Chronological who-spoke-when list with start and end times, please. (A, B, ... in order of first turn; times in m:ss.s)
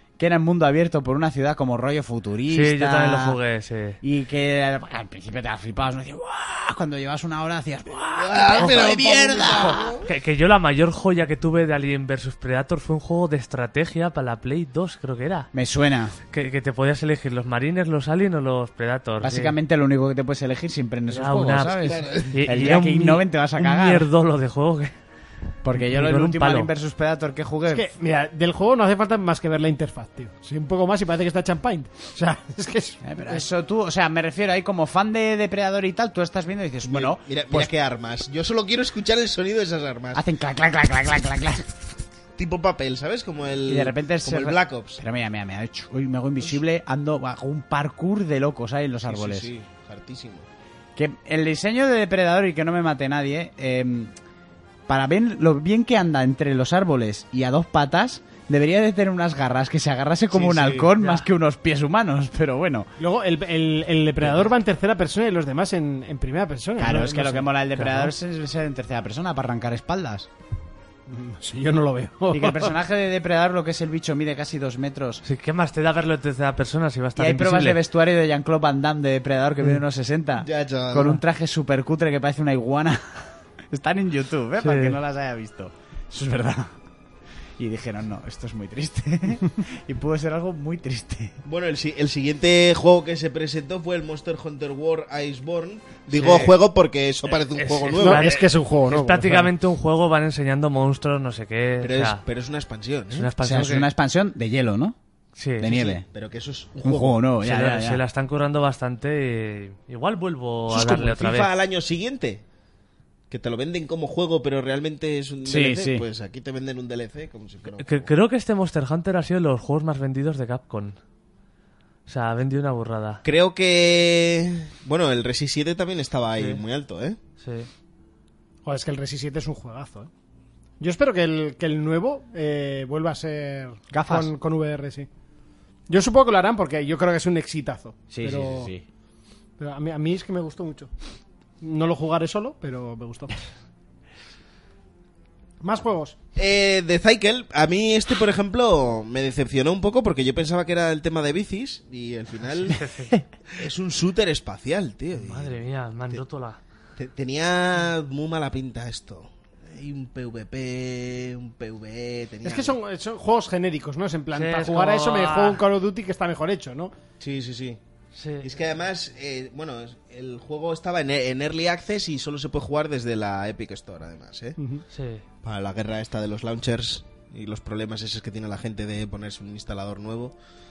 0:00.2-0:03.4 A
0:02.5-0:04.0 B
0:04.0-0:09.9 A
0:08.1-0:10.1 C
0:08.6-0:09.0 B
0:09.6-0:15.5 B
0:15.5-0:16.2 A
0:16.3-0:19.6 B
0:19.2-0:24.1 A
0:21.1-0:24.9 B
0:21.8-0:22.4 C
0:25.6-0:27.9 A
0:25.8-0:26.7 B
0:27.7-0:33.4 D
0:33.0-0:37.7 A
0:36.8-0:40.2 C
0:40.2-0:41.7 A
0:42.4-0:45.0 C
0:43.7-0:49.5 A
0:49.0-0:50.5 C
0:51.0-0:54.1 A
0:54.9-1:02.9 A
1:00.3-1:00.9 C
1:01.0-1:01.3 B
1:03.0-1:07.6 D
1:04.2-1:04.5 A
1:06.8-1:10.3 A
1:07.8-1:08.1 B
1:11.1-1:12.8 D
1:12.3-1:15.2 A
1:15.2-1:17.8 B
1:17.2-1:26.7 A
1:20.4-1:21.2 C
1:24.6-1:25.0 B
1:27.6-1:31.4 A
1:31.4-1:38.4 C
1:36.1-1:36.6 B
1:37.5-1:42.2 B
1:38.0-1:39.5 D
1:41.8-1:43.3 C
1:43.1-1:43.9 B
1:43.4-1:45.0 A
1:45.4-1:45.8 B
1:45.6-1:46.1 A
1:45.6-1:47.2 C
1:46.8-1:48.0 A
1:47.4-1:51.5 B
1:50.7-1:52.4 C
1:53.3-1:58.1 C
1:55.4-1:56.1 A
1:57.8-2:01.0 B
2:02.1-2:03.2 B
2:03.2-2:07.2 C
2:07.4-2:07.7 B
2:08.6-2:10.1 D
2:10.8-2:15.1 D
2:13.9-2:14.3 A
2:15.9-2:18.7 D
2:18.1-2:18.8 A
2:19.6-2:20.9 D
2:21.6-2:23.4 D
2:25.6-2:26.2 D
2:26.4-2:32.8 C
2:32.7-2:33.2 B
2:33.5-2:35.5 C
2:35.2-2:36.6 B
2:37.0-2:42.8 C
2:42.4-2:46.9 D
2:44.3-2:45.6 B
2:47.2-2:47.8 C
2:48.2-2:48.5 B
2:48.4-2:54.6 C
2:54.6-2:54.8 D
2:54.9-2:55.2 B
2:55.4-3:00.4 C